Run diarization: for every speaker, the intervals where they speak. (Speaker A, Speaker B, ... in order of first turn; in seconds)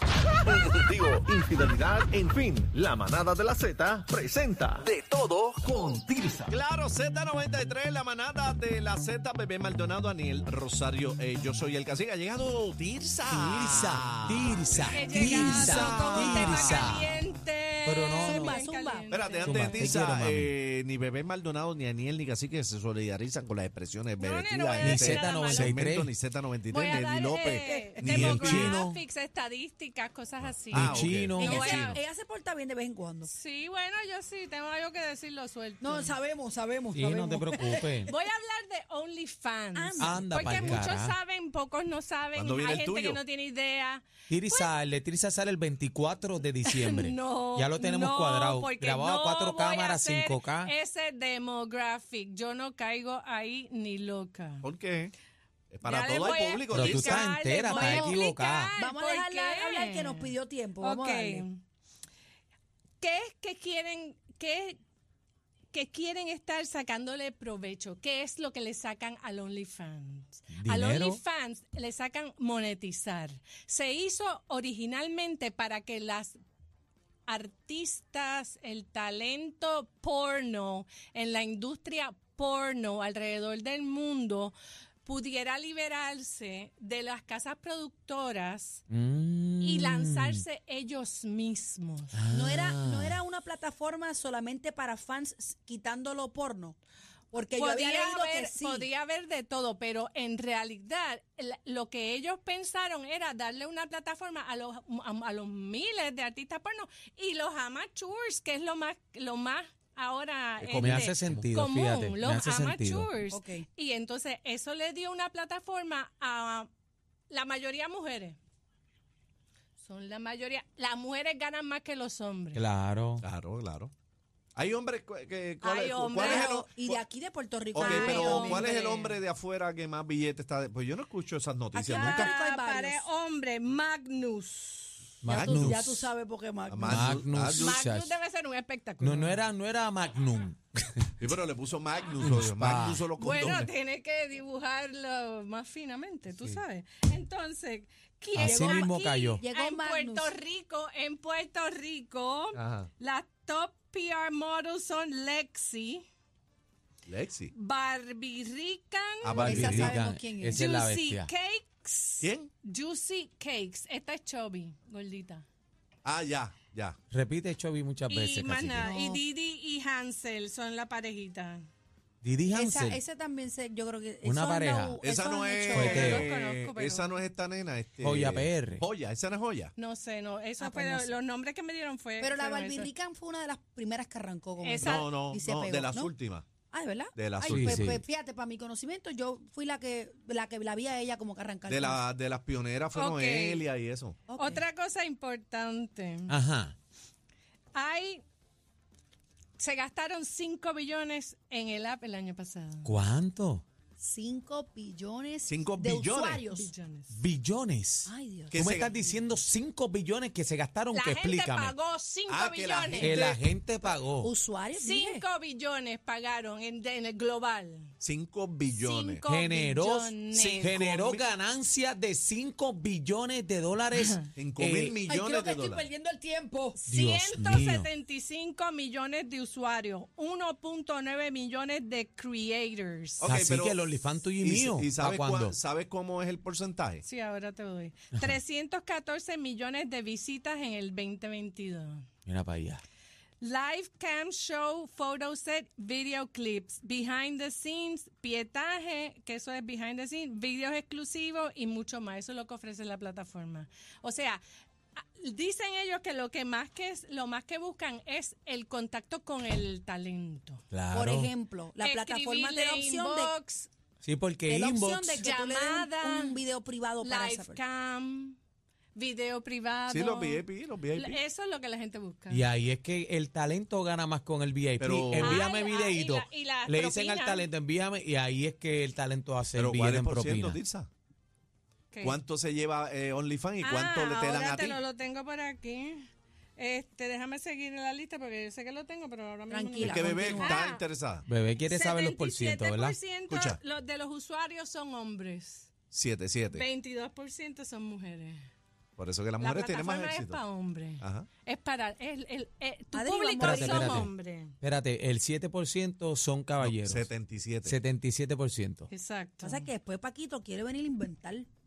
Speaker A: 0.5-6.5
Speaker B: 3.4-3.8, 6.5-16.8, 19.1-28.8, 30.7-32.0, 40.5-40.8, 42.3-43.2, 54.6-55.1, 55.7-57.3, 110.6-111.4, 123.2-123.9, 124.5-127.0, 127.7-132.3, 135.3-136.0, 136.7-137.8, 141.2-143.7, 152.5-152.9, 157.1-157.5, 159.2-160.0, 162.2-162.5, 166.0-167.0, 175.0-179.7, 184.8-186.5, 187.1-187.9, 191.7-194.2, 205.5-206.4, 208.5-209.0, 212.3-213.4, 218.0-219.2, 220.3-221.2, 224.3-225.9, 233.2-237.0, 269.9-271.2, 274.8-275.5, 279.5-280.9, 282.0-284.8, 289.8-291.2, 293.3-293.6, 295.9-296.6, 299.0-300.4, 301.0-301.3, 306.6-307.8
Speaker C: 13.3-17.2, 17.8-18.6, 19.4-20.5, 24.8-26.1, 28.1-29.0, 30.7-31.9, 36.9-38.1, 40.0-41.1, 44.3-50.7, 56.7-58.7, 70.5-71.2, 88.9-90.4, 92.1-93.2, 110.8-113.1, 122.5-123.2, 135.2-136.1, 136.8-138.2, 139.0-141.1, 142.2-143.1, 148.3-149.4, 159.3-161.3, 167.1-168.9, 172.2-173.0, 174.2-175.0, 175.7-176.3, 178.0-178.8, 187.5-188.0, 196.3-196.7, 202.8-203.6, 207.1-211.8, 212.9-214.3, 219.3-225.0, 226.9-227.9, 233.2-235.6, 242.2-242.8, 260.7-261.3, 264.0-265.2, 272.3-280.6, 291.3-293.0, 303.4-307.1, 307.6-308.9
Speaker D: 14.9-19.9, 24.2-25.7, 26.7-32.0, 33.2-36.1, 38.0-44.7, 46.6-54.6, 55.8-61.6, 63.0-64.8, 65.7-76.4, 77.3-88.8, 89.6-92.2, 97.5-116.7, 117.3-118.4, 119.8-122.6, 125.6-126.6, 127.8-129.2, 131.9-135.2, 137.5-139.4, 143.2-156.0, 157.5-165.4, 168.1-171.7, 175.7-177.2, 179.8-182.9, 184.6-185.1, 192.9-193.6, 194.3-196.4, 197.7-198.2, 199.6-202.9, 206.5-207.2, 210.9-213.4, 214.7-217.9, 218.7-220.8, 223.9-224.3, 226.8-233.3, 237.0-242.1, 243.4-254.4, 254.9-260.6, 261.8-263.7, 265.2-266.4, 267.0-268.4, 268.9-270.4, 270.9-272.4, 275.2-277.5, 281.9-282.2, 283.6-290.8, 291.6-295.7, 296.5-298.5, 299.4-304.5, 308.9-309.7
Speaker E: 15.3-16.3, 18.2-19.1, 26.9-28.0, 31.4-33.3, 35.8-38.1, 39.7-40.4, 57.7-58.2, 58.8-61.5, 92.3-96.8, 97.3-98.9, 113.3-113.6, 126.2-128.7, 131.7-133.1, 135.3-137.1, 148.4-150.3, 159.4-160.7, 168.8-169.2, 172.5-176.1, 180.6-181.2, 182.2-186.1, 186.7-192.0, 194.3-194.6, 204.0-206.7, 208.1-209.2, 214.0-215.2, 225.1-226.8, 260.9-263.3, 264.5-267.6, 289.5-290.6, 302.9-304.1, 309.4-311.5